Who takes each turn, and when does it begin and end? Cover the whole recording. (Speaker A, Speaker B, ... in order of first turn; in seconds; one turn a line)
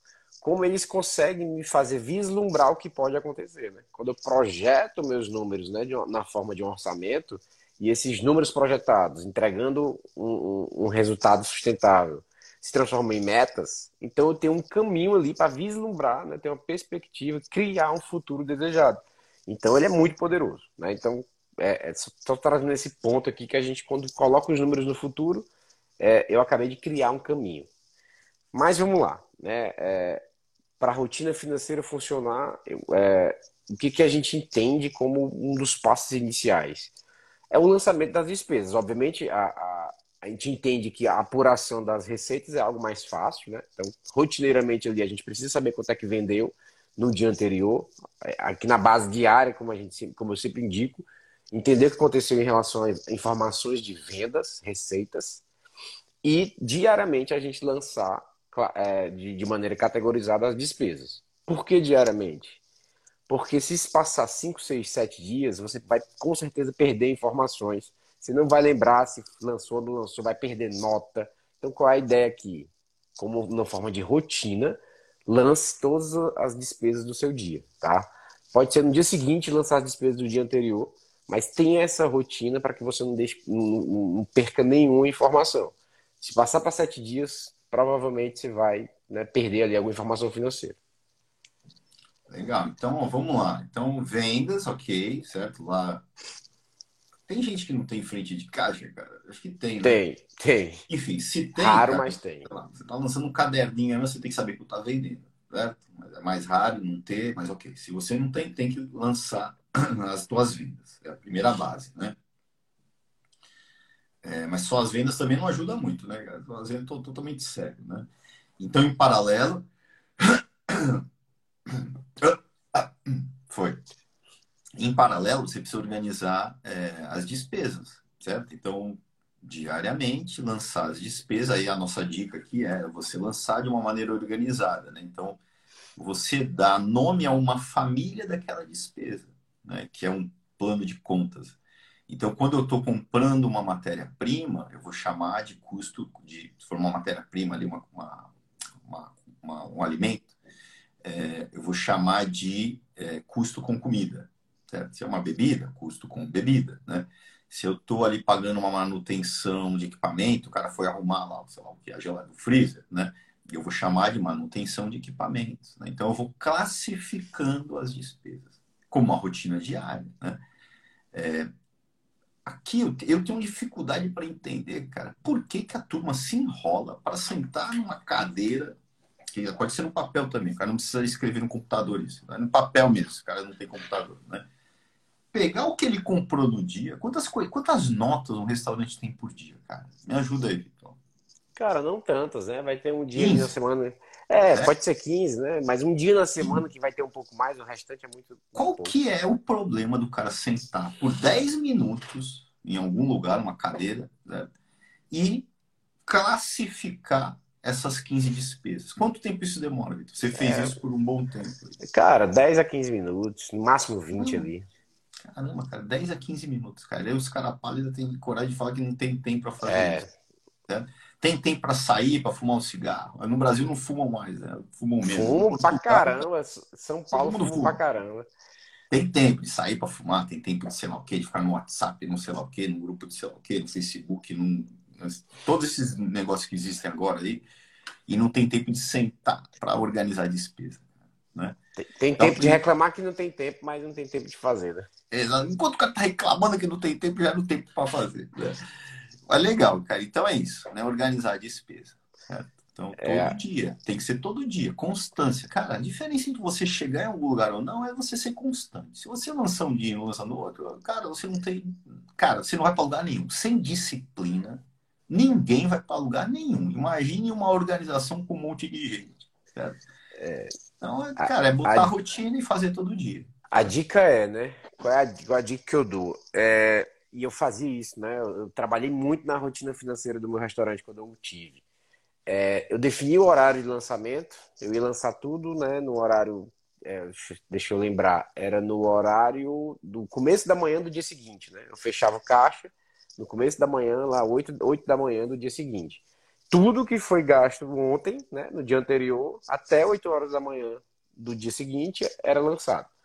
Speaker A: 0.4-25.5
Speaker A: 26.0-27.7
Speaker A: 28.5-30.2
Speaker A: 30.8-36.9
Speaker A: 37.5-55.4
Speaker A: 56.2-62.6
Speaker A: 63.3-90.8
Speaker B: 92.3-96.0
Speaker B: 97.3-100.0
Speaker A: 99.8-100.8
Speaker B: 100.9-112.2
Speaker A: 101.5-102.5
Speaker B: 114.2-119.7
Speaker B: 120.2-121.0
Speaker B: 121.7-123.8
Speaker B: 124.8-135.4
Speaker B: 136.0-141.6
Speaker B: 142.1-148.3
Speaker B: 148.8-150.3
Speaker B: 151.0-170.4
Speaker B: 171.1-171.5
Speaker B: 172.4-178.7
Speaker B: 179.3-184.4
Speaker B: 185.3-191.0
Speaker A: 191.6-198.9
Speaker B: 193.1-193.5
Speaker B: 194.4-194.7
Speaker B: 198.5-204.5
Speaker B: 205.1-205.5
Speaker B: 206.1-211.8
Speaker A: 210.3-210.8
Speaker A: 211.8-214.6
Speaker B: 214.1-214.5
Speaker B: 215.3-220.0
Speaker A: 219.6-220.1
Speaker B: 220.7-226.2
Speaker A: 225.1-228.3
Speaker B: 227.1-227.8
Speaker B: 228.9-237.4
Speaker B: 238.1-240.8
Speaker A: 241.8-244.9
Speaker B: 242.2-242.6
Speaker B: 245.1-248.6
Speaker B: 249.3-269.8
Speaker A: 253.0-253.3
Speaker A: 270.1-270.5
Speaker B: 270.8-273.3
Speaker A: 271.2-271.9
Speaker A: 273.5-281.6
Speaker A: 282.3-302.9